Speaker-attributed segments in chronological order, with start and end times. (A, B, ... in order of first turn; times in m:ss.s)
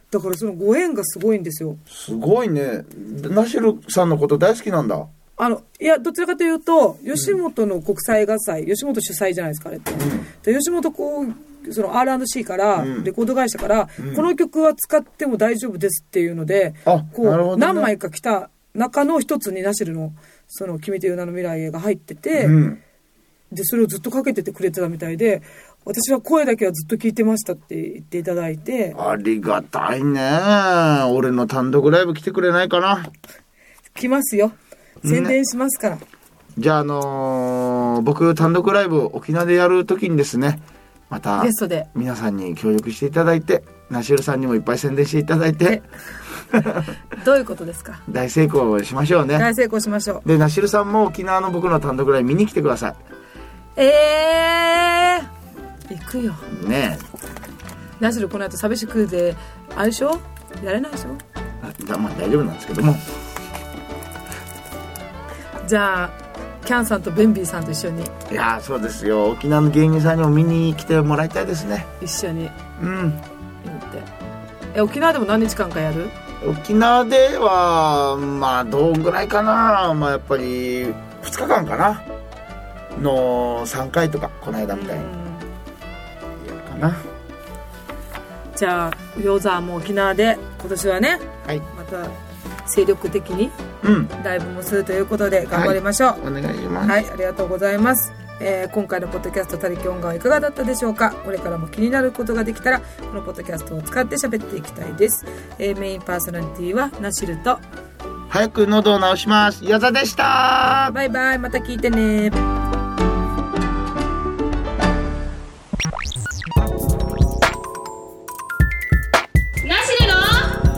0:00.1-0:01.8 A
0:01.9-0:05.1 B
0:05.4-0:22.6 A
0:10.0-0:10.3 B
0:12.8-0:13.1 B
0:14.0-0:14.3 B
0:16.9-0:17.9 B
0:22.4-0:22.8 B
0:23.5-0:29.0 A
0:29.0-0:33.1 B
0:33.9-0:36.0 A
0:35.0-0:35.4 B
0:36.6-0:45.8 B
0:41.4-0:41.9 A
0:46.3-0:46.9 B
0:47.1-0:48.0 A
0:48.1-0:49.5 B
0:49.4-0:50.2 A
0:50.2-0:53.0 B
0:53.8-0:55.3 A
0:55.9-0:56.5 A
0:56.5-0:57.0 B
0:58.0-1:01.2 A
1:01.6-1:03.0 B
1:05.6-1:08.1 A
1:08.3-1:11.9 B
1:12.0-1:12.6 A
1:12.8-1:13.2 B
1:13.6-1:14.1 A
1:14.7-1:16.1 A
1:16.4-1:22.1 B
1:23.0-1:25.1 B
1:24.7-1:25.5 A
1:26.4-1:27.1 B
1:28.6-1:32.2 A
1:32.7-1:33.6 A
1:33.8-1:34.1 B
1:34.2-1:36.2 A
1:35.5-1:37.0 B
1:36.8-1:47.6 A
1:48.3-1:51.0 B
1:50.9-1:52.4 A
1:59.6-2:00.6 A